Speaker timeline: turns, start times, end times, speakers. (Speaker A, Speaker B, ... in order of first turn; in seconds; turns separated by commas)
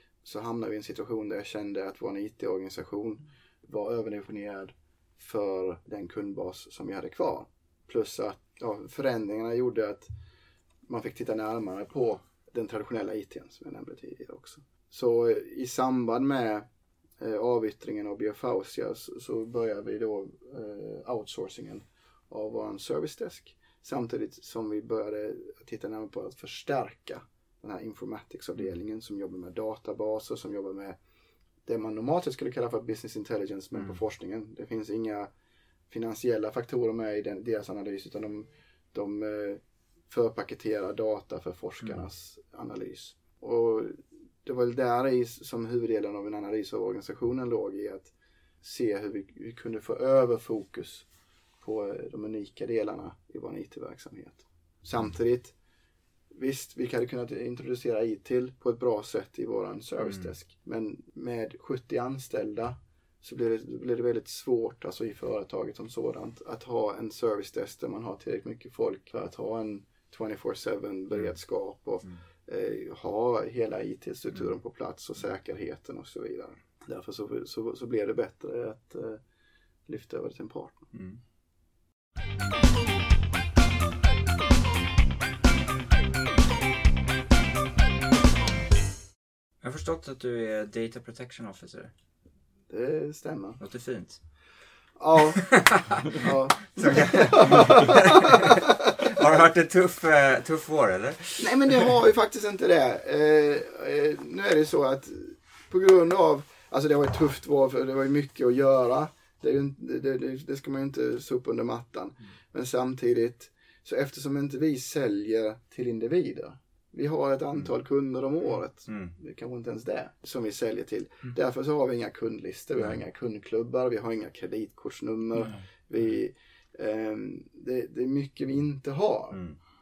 Speaker A: 0.2-10.1, Speaker A: 10.8-16.7, Speaker A: 17.2-31.0, Speaker A: 31.7-35.3, Speaker A: 35.9-51.1, Speaker A: 51.6-55.5, Speaker A: 56.3-79.2, Speaker A: 79.9-80.9, Speaker B: 80.9-81.2, Speaker B: 89.6-91.9, Speaker A: 92.7-93.6, Speaker B: 93.6-94.2, Speaker A: 95.0-98.6, Speaker B: 95.4-101.8, Speaker A: 101.4-129.4, Speaker B: 118.9-119.1, Speaker B: 129.3-129.6